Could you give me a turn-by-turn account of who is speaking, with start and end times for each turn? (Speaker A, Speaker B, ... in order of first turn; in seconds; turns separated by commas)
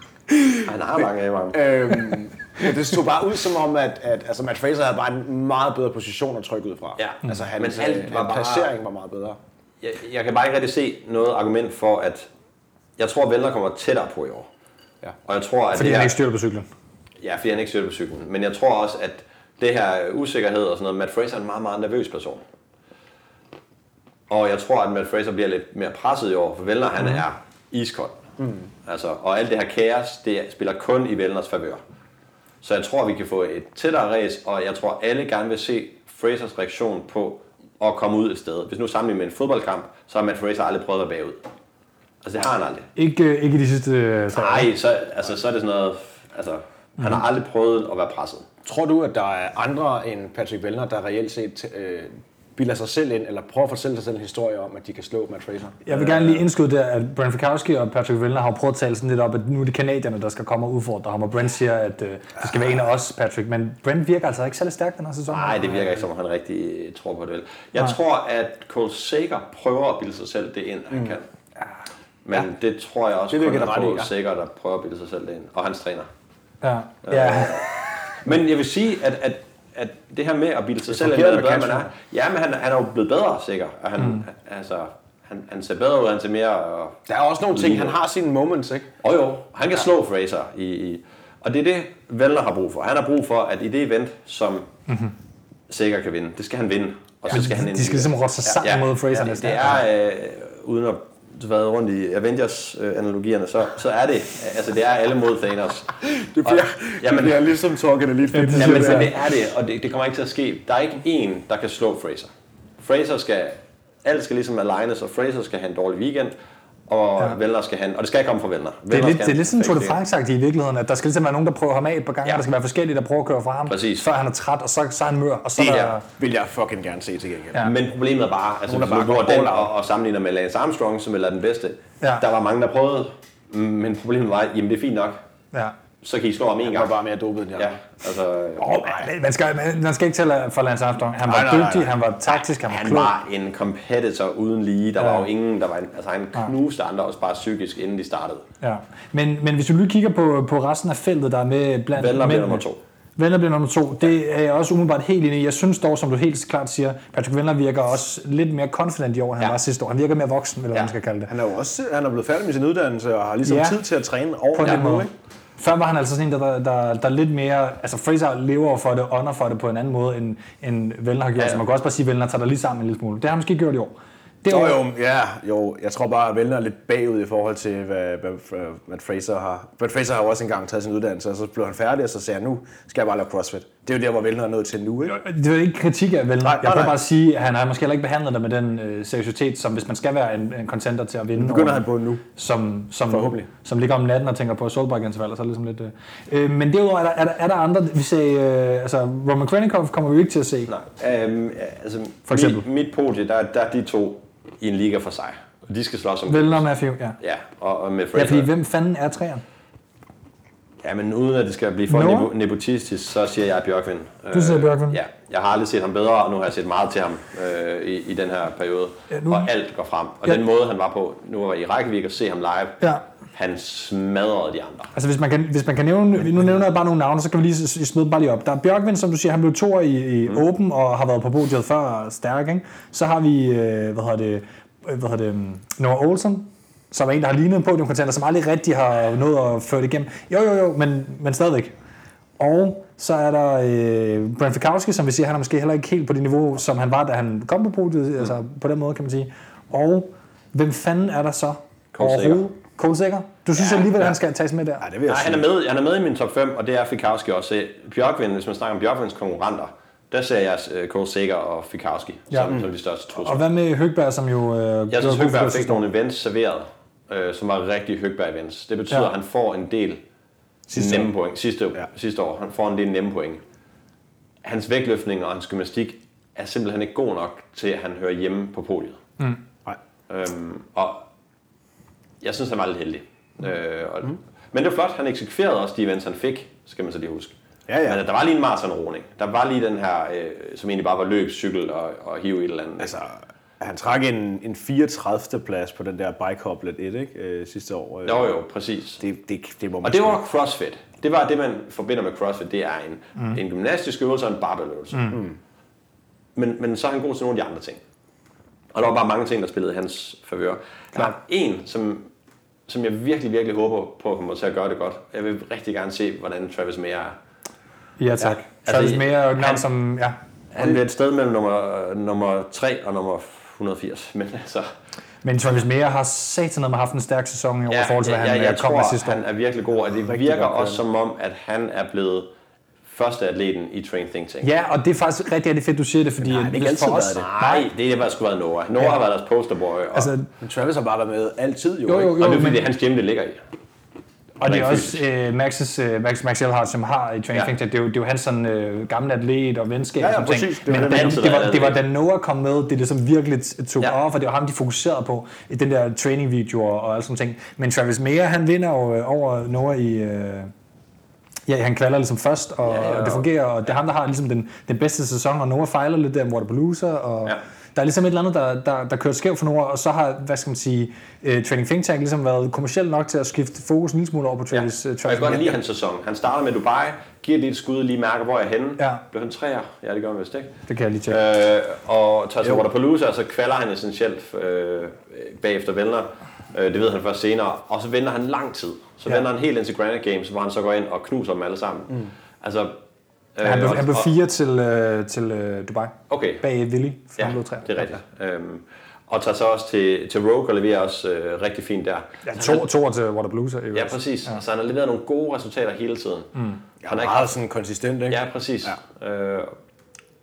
Speaker A: 0.3-0.6, Speaker B: 0.7-1.7, Speaker C: 1.5-9.4, Speaker B: 7.0-8.7, Speaker B: 9.8-12.3, Speaker B: 13.0-14.5, Speaker B: 15.3-16.2, Speaker A: 15.7-16.7, Speaker B: 17.2-22.4, Speaker B: 24.3-28.2, Speaker C: 28.4-28.7, Speaker B: 28.9-31.8, Speaker B: 32.6-41.4, Speaker B: 42.2-42.9, Speaker A: 43.0-44.7, Speaker B: 44.3-48.5, Speaker C: 48.6-55.9, Speaker A: 55.9-65.9, Speaker B: 55.9-56.4, Speaker B: 65.3-71.3, Speaker B: 72.2-76.1, Speaker C: 73.3-74.1, Speaker A: 76.6-77.7, Speaker B: 77.0-77.7, Speaker B: 78.2-87.0, Speaker C: 80.9-81.9, Speaker C: 87.1-88.9, Speaker B: 87.5-88.0, Speaker B: 89.0-94.7, Speaker A: 94.9-95.1, Speaker B: 95.7-107.5, Speaker A: 97.3-99.8, Speaker C: 106.0-109.1, Speaker A: 108.3-109.1, Speaker B: 108.5-116.3, Speaker B: 116.9-120.0, Speaker A: 118.9-126.0, Speaker B: 123.7-124.1, Speaker B: 125.6-126.0, Speaker C: 126.1-127.7, Speaker B: 127.6-135.2, Speaker C: 128.7-129.7, Speaker B: 136.0-136.9, Speaker C: 136.7-137.7, Speaker B: 137.6-138.8, Speaker A: 138.6-143.1, Speaker C: 141.3-141.9, Speaker B: 142.7-148.4, Speaker A: 145.0-145.3, Speaker A: 148.6-152.7, Speaker B: 152.0-152.8, Speaker A: 153.2-161.3, Speaker C: 161.3-165.1, Speaker A: 163.4-163.8, Speaker A: 164.5-174.8, Speaker C: 174.5-185.2, Speaker A: 185.1-191.8, Speaker C: 186.4-187.0, Speaker C: 191.3-192.2, Speaker A: 192.4-200.7, Speaker C: 193.1-193.5, Speaker B: 200.7-206.7, Speaker A: 202.3-202.7, Speaker A: 206.3-207.2, Speaker B: 207.2-208.5, Speaker A: 208.1-209.4, Speaker B: 210.8-222.8, Speaker A: 211.9-212.3, Speaker A: 214.3-215.0, Speaker A: 219.1-219.5, Speaker B: 223.3-224.9, Speaker A: 224.9-241.7, Speaker A: 242.4-254.9, Speaker B: 251.9-252.4, Speaker B: 253.6-253.9, Speaker C: 254.8-255.5, Speaker B: 255.1-263.4, Speaker A: 262.3-262.6, Speaker A: 263.2-265.9, Speaker B: 264.9-270.0, Speaker A: 270.7-271.1, Speaker B: 270.7-273.4, Speaker B: 274.4-279.0, Speaker B: 280.1-281.1, Speaker B: 282.2-293.0, Speaker C: 287.7-288.0, Speaker C: 292.8-298.3, Speaker B: 298.1-299.0, Speaker C: 299.0-300.2, Speaker B: 299.8-305.2, Speaker A: 304.9-305.2, Speaker B: 306.4-307.8, Speaker B: 308.7-312.1, Speaker B: 312.7-317.2, Speaker A: 318.0-320.2, Speaker B: 318.2-319.6, Speaker B: 320.5-324.7, Speaker A: 325.2-329.2, Speaker B: 327.7-332.3, Speaker C: 330.1-330.8, Speaker B: 332.9-334.5, Speaker A: 334.4-337.7, Speaker C: 336.2-337.6, Speaker B: 337.4-340.1, Speaker A: 339.9-340.3, Speaker C: 340.4-342.4, Speaker A: 341.9-342.7, Speaker B: 342.2-343.4, Speaker A: 344.4-360.5, Speaker B: 344.4-345.0, Speaker C: 350.0-351.2, Speaker B: 350.7-351.8, Speaker A: 361.5-375.6, Speaker B: 362.6-363.3, Speaker B: 374.5-380.5, Speaker A: 380.7-381.2, Speaker B: 381.1-392.7, Speaker B: 393.4-394.1, Speaker A: 393.4-398.0, Speaker B: 396.1-396.4, Speaker B: 397.2-402.7, Speaker A: 402.2-404.4, Speaker B: 403.7-406.3, Speaker C: 406.8-408.8, Speaker B: 406.9-407.3, Speaker B: 408.1-409.5